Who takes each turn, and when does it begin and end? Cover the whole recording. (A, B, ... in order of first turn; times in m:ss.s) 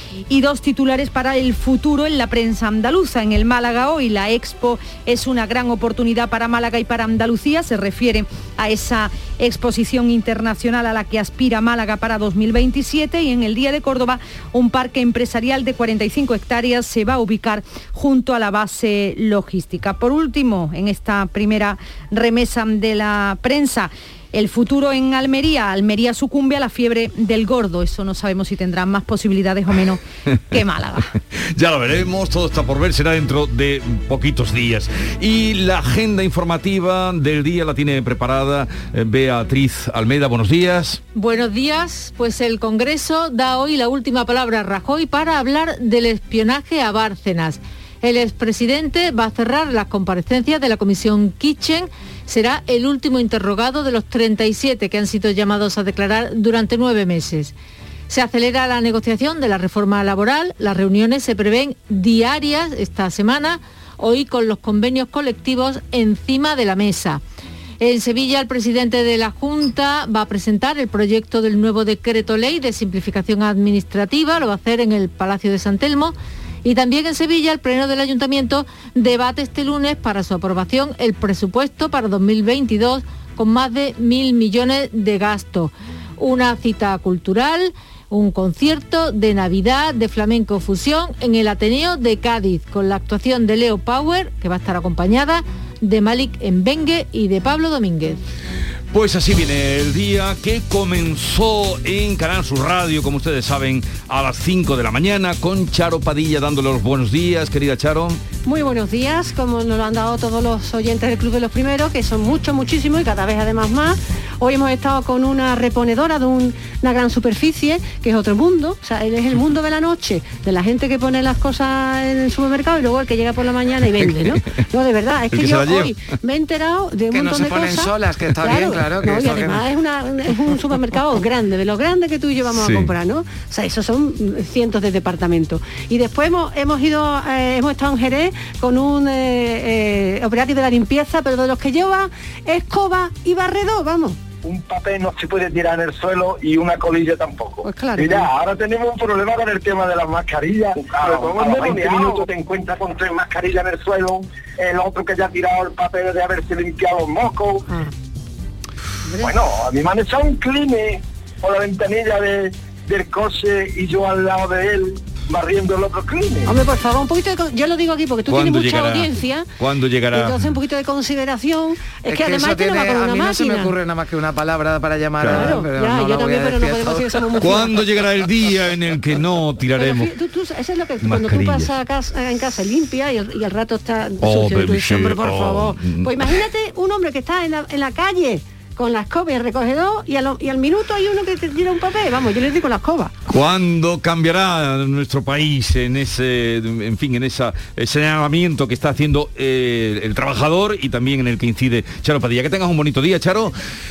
0:00.3-0:31.1 A
0:31.6-0:41.0 B
0:41.1-0:57.5 C
0:58.1-1:07.2 C
1:07.8-1:38.2 C
1:38.9-1:48.2 B
1:48.4-2:24.2 D
2:05.3-2:05.9 B
2:07.1-2:09.7 E
2:12.5-2:12.9 B
2:24.4-2:37.7 F
2:27.6-2:28.3 D
2:31.4-2:31.9 D
2:39.2-2:46.5 F
2:46.5-2:49.5 D
2:48.3-2:50.5 B
2:50.1-2:53.8 D
2:52.1-2:57.6 E
2:55.2-2:55.6 B
2:55.3-2:57.9 D
2:57.4-3:00.1 B
2:59.7-3:13.1 D
3:01.0-3:01.7 B
3:04.2-3:06.2 B
3:13.3-3:23.5 B